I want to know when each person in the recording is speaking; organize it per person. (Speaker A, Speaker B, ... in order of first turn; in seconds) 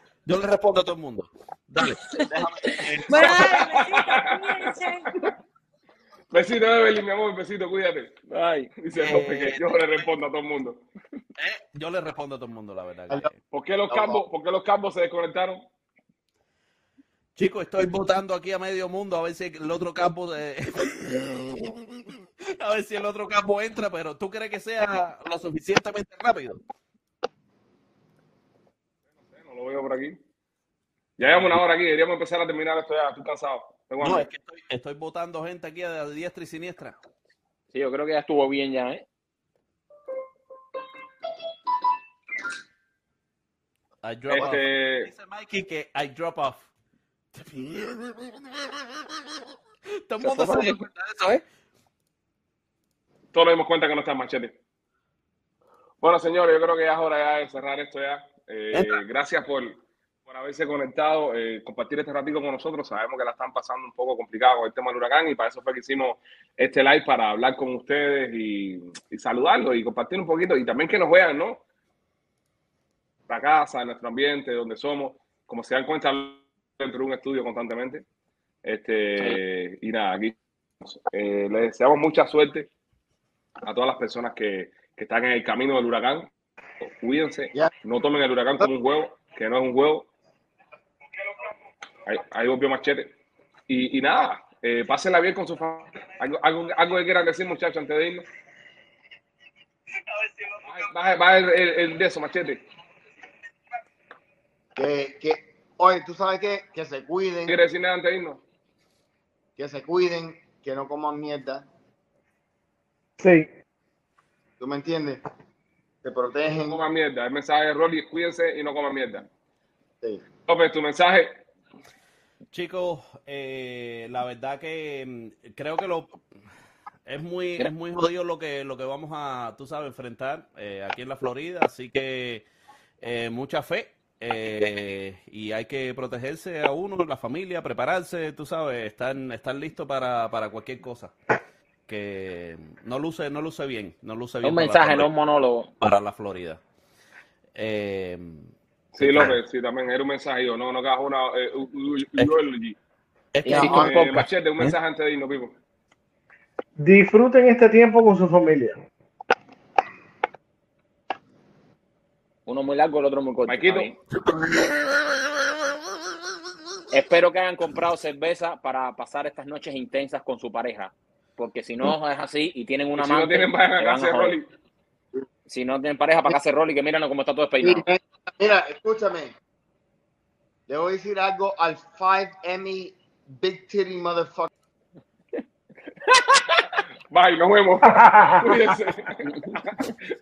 Speaker A: 0.3-3.7, 9.0-10.1, 11.4-13.4, 17.4-21.8, 22.6-26.6, 31.2-31.6, 34.0-37.0, 44.0-46.7, 47.4-48.4, 50.1-51.4, 58.7-59.0, 122.5-126.2, 127.1-132.4, 133.0-141.1, 141.9-145.1, 145.8-146.6, 147.6-149.4, 153.3-154.8, 164.3-164.7
Speaker B: 3.1-5.1
Speaker C: 3.1-4.8, 6.3-8.1, 8.8-10.8, 13.5-15.7, 29.3-30.2, 31.2-34.3, 44.3-45.1, 53.3-54.5, 56.0-71.6, 73.3-78.0, 78.7-82.7, 83.6-86.3, 87.0-90.1, 92.1-93.1, 93.7-98.3, 100.7-102.6, 107.5-108.4, 116.5-119.3, 120.5-121.3, 148.9-152.8, 153.6-155.6, 163.5-163.9, 173.0-174.5, 187.1-189.9
Speaker D: 8.3-8.7, 37.7-39.0, 50.2-50.8, 144.4-145.7, 153.4-154.2, 162.5-163.9, 166.9-174.4, 175.5-177.9
Speaker E: 104.8-107.5, 109.6-111.7, 114.6-115.2, 116.0-116.8, 177.6-179.3, 180.7-184.5
Speaker F: 113.2-113.5, 156.8-158.8, 187.9-188.6